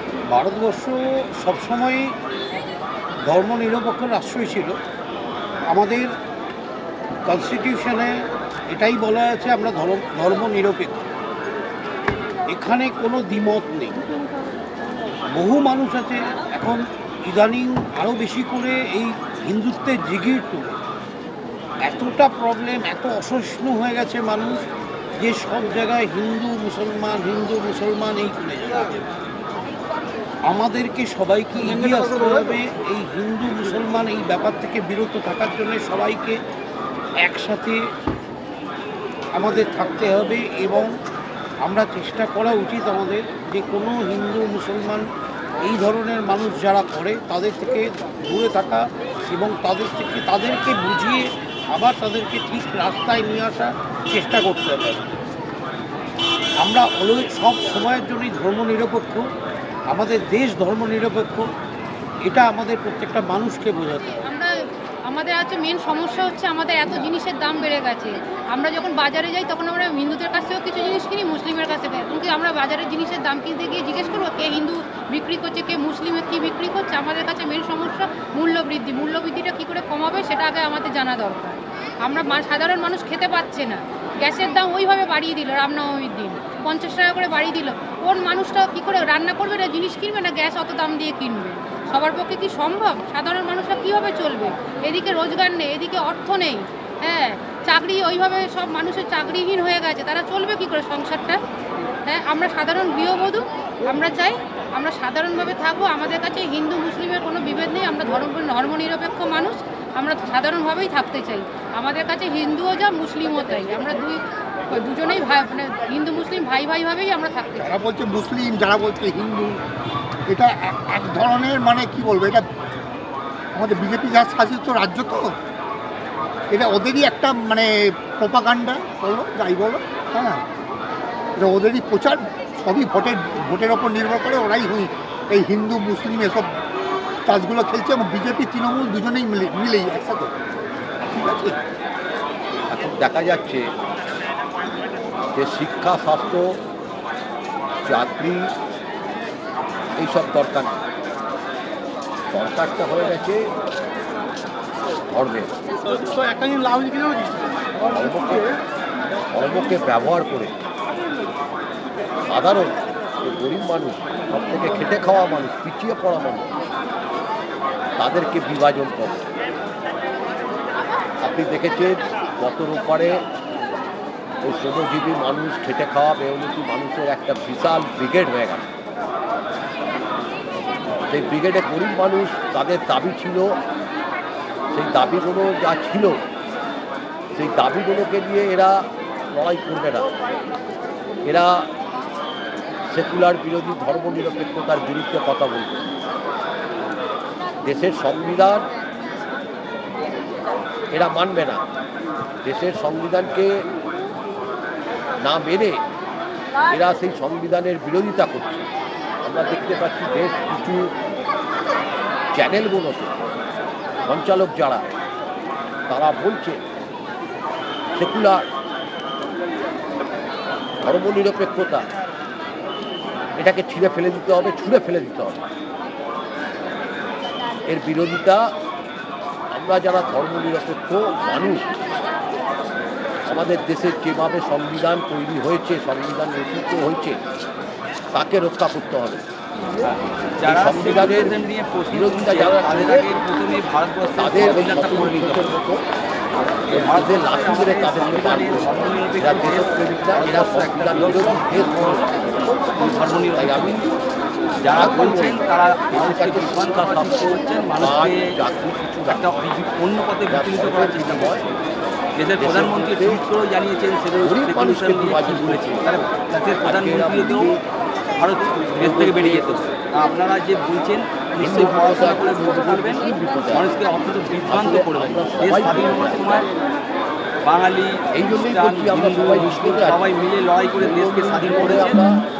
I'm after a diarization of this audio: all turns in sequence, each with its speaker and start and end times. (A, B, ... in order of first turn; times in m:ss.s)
0:00.3-0:02.1 A
0:03.3-0:04.8 A
0:05.7-0:06.1 A
0:07.3-0:08.1 A
0:08.7-0:11.0 A
0:12.5-0:14.0 A
0:15.3-0:20.7 A
0:21.8-0:24.6 A
0:25.2-0:29.0 A
0:30.5-0:36.4 A
0:37.2-0:37.8 A
0:39.3-0:40.9 A
0:41.6-0:45.0 A
0:45.6-0:55.1 A
0:56.6-0:59.2 A
0:59.9-1:01.5 A
1:02.2-1:04.1 A
1:04.2-1:04.5 B
1:05.1-1:41.4 B
1:42.0-1:57.8 B
1:57.6-1:59.6 C
2:00.3-2:02.4 C
2:03.5-2:05.3 C
2:06.5-2:10.4 C
2:11.4-2:16.5 C
2:17.2-2:20.3 C
2:21.1-2:21.6 C
2:22.7-2:23.6 D
2:25.3-2:26.5 D
2:27.8-2:28.5 D
2:30.0-2:30.7 D
2:32.3-2:33.4 D
2:35.1-2:35.5 D
2:37.8-2:38.5 D
2:39.3-2:40.5 D
2:42.3-2:46.5 D
2:48.0-2:49.2 D
2:51.2-2:53.2 D
2:54.4-2:58.6 D
3:01.1-3:03.5 D
3:04.7-3:06.2 D
3:07.3-3:10.1 D
3:11.2-3:11.7 D
3:12.9-3:15.9 D
3:17.6-3:18.7 D
3:20.9-3:21.6 D
3:22.4-3:23.6 D
3:25.2-3:25.8 D
3:26.7-3:28.6 D
3:29.2-3:30.9 D
3:32.3-3:33.1 D
3:34.0-3:34.8 D
3:35.9-3:36.6 D
3:37.9-3:38.4 D
3:40.8-3:41.8 D
3:43.4-3:45.4 D
3:47.7-3:48.4 D
3:49.5-3:51.7 D
3:53.2-3:57.2 D
3:58.1-3:59.2 D
4:00.4-4:05.5 E
4:00.4-4:01.3 D
4:01.9-4:03.1 D
4:04.2-4:05.8 D
4:06.7-4:12.1 D
4:06.7-4:12.0 E
4:12.8-4:13.9 E
4:13.4-4:13.9 D
4:14.6-4:18.3 E
4:14.7-4:19.3 D
4:19.1-4:21.4 E
4:20.3-4:21.4 D
4:22.2-4:27.5 E
4:22.4-4:23.2 D
4:24.2-4:25.9 D
4:26.6-4:27.6 D
4:28.2-4:36.5 E
4:28.8-4:29.6 D
4:31.4-4:33.7 D
4:34.4-4:36.4 D
4:37.4-4:42.0 E
4:38.1-4:40.0 D
4:40.8-4:42.2 D